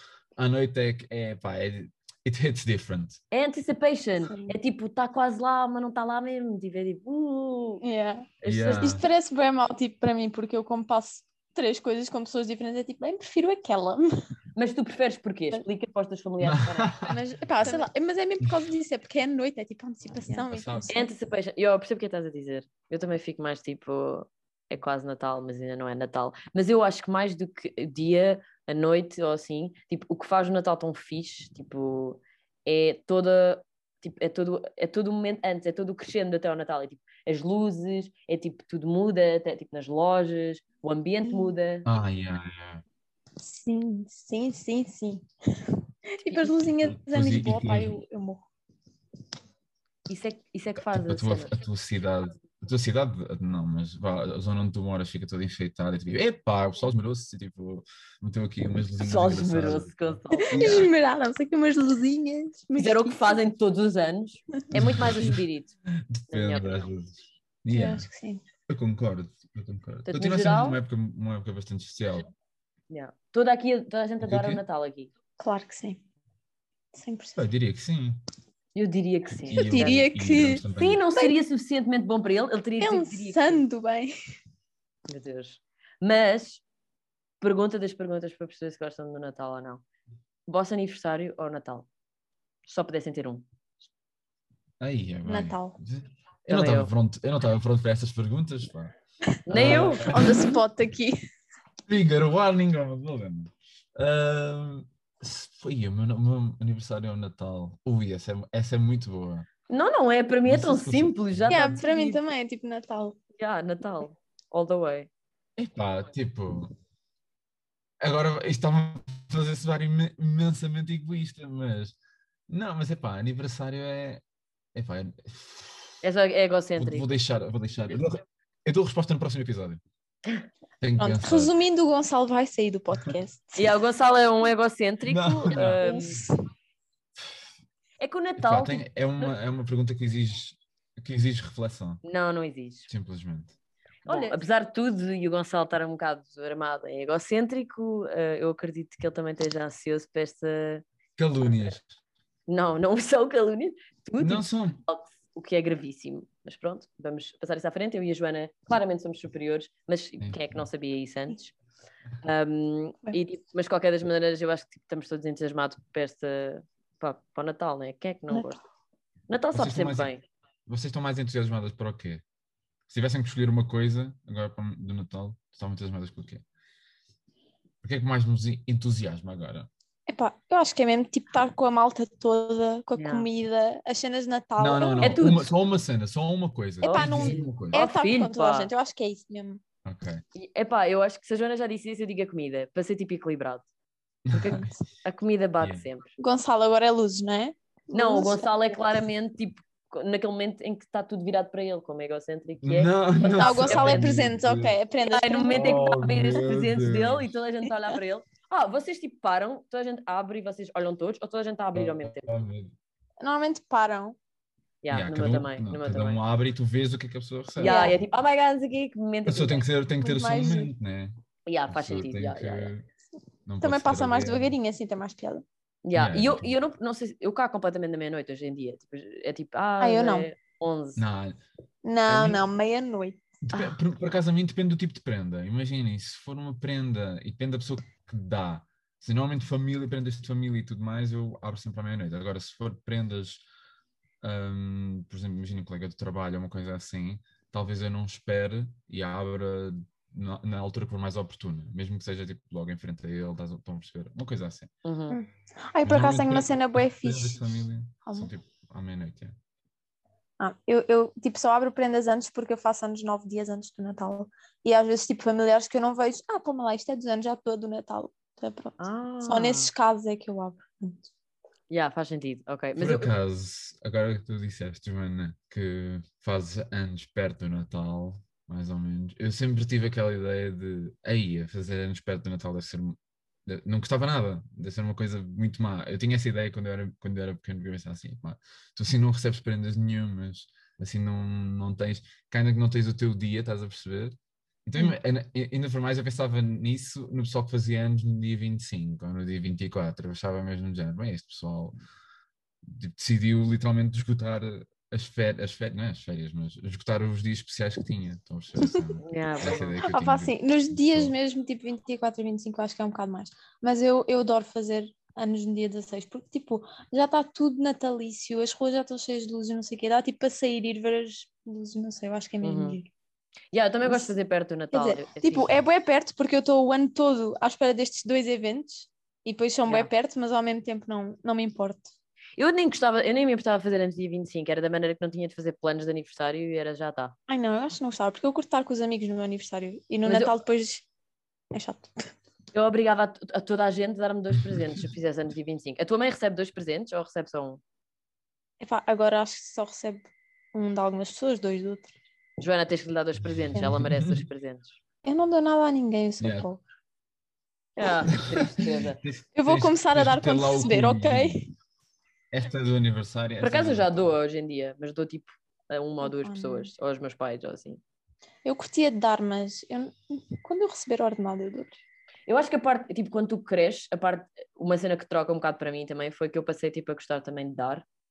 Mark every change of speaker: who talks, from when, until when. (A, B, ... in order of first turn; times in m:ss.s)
0:00.4-0:03.2 A
0:03.3-0:07.8 B
0:04.3-0:04.6 C
0:07.8-0:14.1 C
0:08.4-0:09.0 B
0:08.4-0:09.0 A
0:14.6-0:17.0 B
0:16.4-0:17.2 A
0:17.1-0:21.1 C
0:20.3-0:20.9 A
0:20.9-0:41.9 B
0:41.2-0:41.5 C
0:41.8-0:42.8 A
0:43.4-0:48.4 C
0:46.3-0:46.6 B
0:46.8-0:48.0 A
0:50.1-0:51.6 B
0:50.8-1:00.9 A
0:59.0-1:00.8 B
1:00.4-1:03.4 C
1:02.8-1:05.7 B
1:04.7-1:05.4 A
1:06.0-1:08.1 A
1:06.3-1:06.8 B
1:07.7-1:08.4 C
1:08.7-1:12.3 A
1:10.1-1:10.8 B
1:12.9-1:15.1 B
1:14.2-1:14.6 A
1:15.4-1:16.0 C
1:16.9-1:17.4 C
1:17.4-1:18.2 A
1:18.8-1:20.1 B
1:19.5-1:21.0 A
1:19.5-1:20.6 C
1:20.7-1:23.6 B
1:22.8-1:24.1 C
1:25.1-1:26.6 B
1:27.4-1:29.8 B
1:30.5-1:31.9 B
1:32.7-1:33.4 B
1:34.8-1:38.9 A
1:35.3-1:35.8 C
1:36.5-1:36.9 B
1:39.3-1:41.2 C
1:39.5-1:40.3 B
1:39.5-1:40.4 A
1:41.9-1:49.5 A
1:49.7-1:52.2 B
1:50.5-1:51.8 A
1:51.5-1:53.2 C
1:53.4-1:55.1 B
1:55.6-1:56.7 A
1:58.0-2:02.0 A
2:02.5-2:04.2 A
2:04.8-2:06.0 A
2:06.0-2:07.1 B
2:06.8-2:09.8 A
2:10.8-2:11.5 A
2:11.0-2:13.7 C
2:13.6-2:16.2 B
2:15.1-2:16.2 A
2:15.8-2:16.4 C
2:18.0-2:19.3 B
2:18.4-2:22.0 A
2:22.0-2:22.9 B
2:22.9-2:23.6 A
2:24.1-2:30.8 B
2:24.1-2:24.4 C
2:31.2-2:31.9 A
2:32.5-2:41.5 B
2:34.2-2:34.8 A
2:40.2-2:40.6 A
2:42.2-2:48.6 B
2:49.3-2:50.2 B
2:49.5-2:50.1 A
2:50.7-2:52.2 A
2:52.9-2:56.4 A
2:57.8-2:59.7 A
3:00.1-3:05.3 C
3:03.0-3:03.3 B
3:04.6-3:07.8 A
3:05.0-3:05.5 B
3:06.8-3:09.6 C
3:06.8-3:08.7 B
3:09.8-3:10.2 A
3:10.4-3:13.6 B
3:14.3-3:14.6 A
3:14.3-3:16.1 B
3:15.6-3:15.9 A
3:16.2-3:18.5 C
3:17.9-3:24.2 B
3:22.6-3:24.8 A
3:23.4-3:25.8 C
3:25.1-3:32.3 B
3:25.5-3:27.3 A
3:31.8-3:32.8 A
3:33.2-3:34.2 C
3:34.8-3:36.2 B
3:34.9-3:38.0 A
3:37.6-3:39.6 B
3:37.6-3:38.0 C
3:39.3-3:41.2 A
3:40.0-3:40.7 C
3:41.5-3:42.7 B
3:41.7-3:42.9 A
3:43.5-3:44.5 A
3:43.6-3:45.4 C
3:45.8-3:51.0 B
3:45.9-3:46.6 A
3:49.8-3:50.3 C
3:51.0-3:51.4 A
3:51.8-3:53.2 C
3:52.1-3:52.4 A
3:53.4-4:03.4 A
4:04.2-4:14.7 A
4:14.8-4:15.2 B
4:15.1-4:18.3 C
4:15.8-4:19.4 A
4:20.4-4:31.1 C
4:28.8-4:29.7 B
4:31.7-4:33.1 B
4:32.8-5:01.8 A
5:02.6-5:11.2 A
5:09.0-5:09.8 B
5:09.8-5:22.9 C
5:22.4-5:22.8 B
5:23.5-5:25.6 B
5:23.8-5:24.1 C
5:24.7-5:31.9 C
5:32.4-5:37.2 B
5:37.3-5:40.9 C
5:40.1-5:40.3 B
5:41.5-5:42.1 C
5:42.5-5:47.6 B
5:48.6-5:51.9 C
5:52.4-5:54.8 B
5:53.2-5:54.3 A
5:55.0-5:56.6 C
5:56.2-5:56.5 A
5:57.8-5:59.0 B
5:58.1-6:01.5 A
5:59.4-6:01.5 C
6:02.3-6:04.2 A
6:03.4-6:07.8 B
6:06.0-6:06.7 C
6:08.4-6:11.8 C
6:12.3-6:17.9 B